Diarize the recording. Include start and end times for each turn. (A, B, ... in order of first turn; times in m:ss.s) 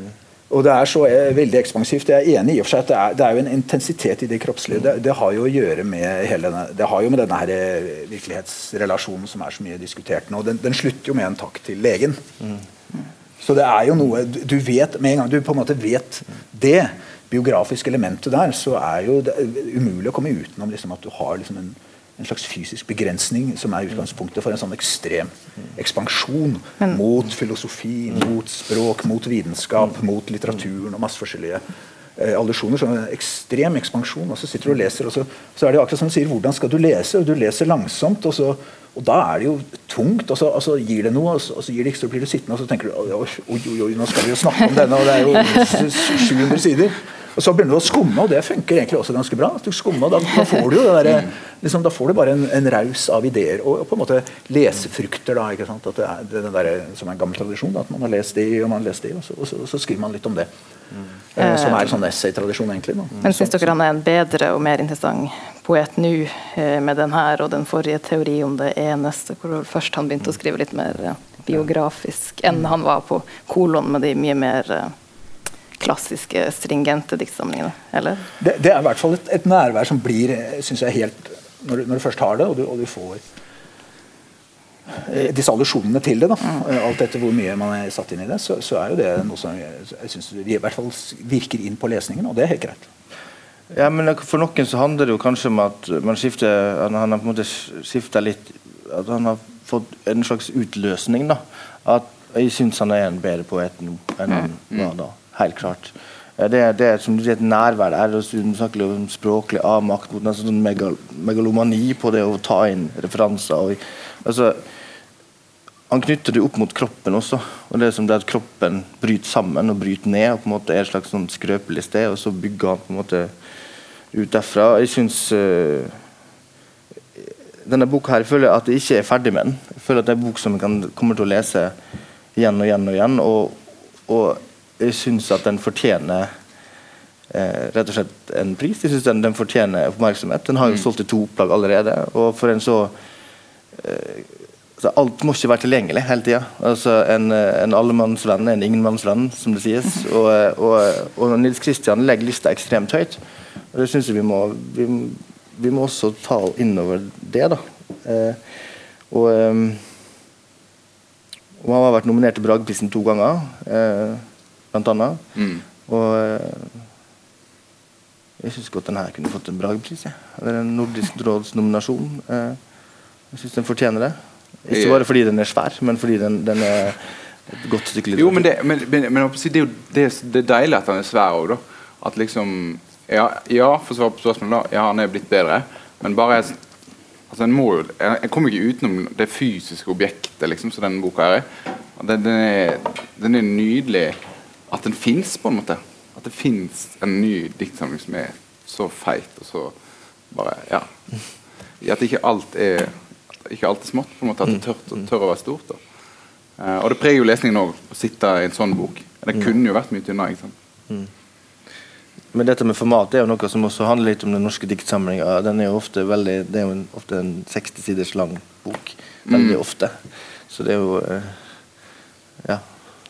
0:00.5-0:12.2 A
0:13.4-0:31.6 A
0:32.2-1:00.5 A
1:01.3-1:03.7 A
1:01.4-1:01.9 B
1:03.2-1:14.9 B
1:15.8-1:18.3 B
1:18.4-1:23.2 A
1:25.0-1:32.9 A
1:33.7-1:54.6 C
1:55.9-2:03.3 C
2:04.1-2:06.0 C
2:07.2-2:11.7 C
2:12.3-2:16.3 C
2:17.3-2:22.9 C
2:23.7-2:33.2 C
2:33.7-2:38.4 C
2:39.1-2:39.9 C
2:41.6-2:45.2 C
2:45.4-2:45.6 D
2:45.8-2:46.9 C
2:48.4-2:52.6 C
2:53.3-2:58.4 C
2:54.7-2:55.0 D
2:58.2-3:06.6 D
3:07.3-3:14.2 D
3:14.7-3:19.7 D
3:20.3-3:20.9 D
3:21.8-3:25.8 D
3:26.6-3:30.5 D
3:32.3-3:41.4 C
3:39.2-3:39.6 D
3:42.4-3:42.7 C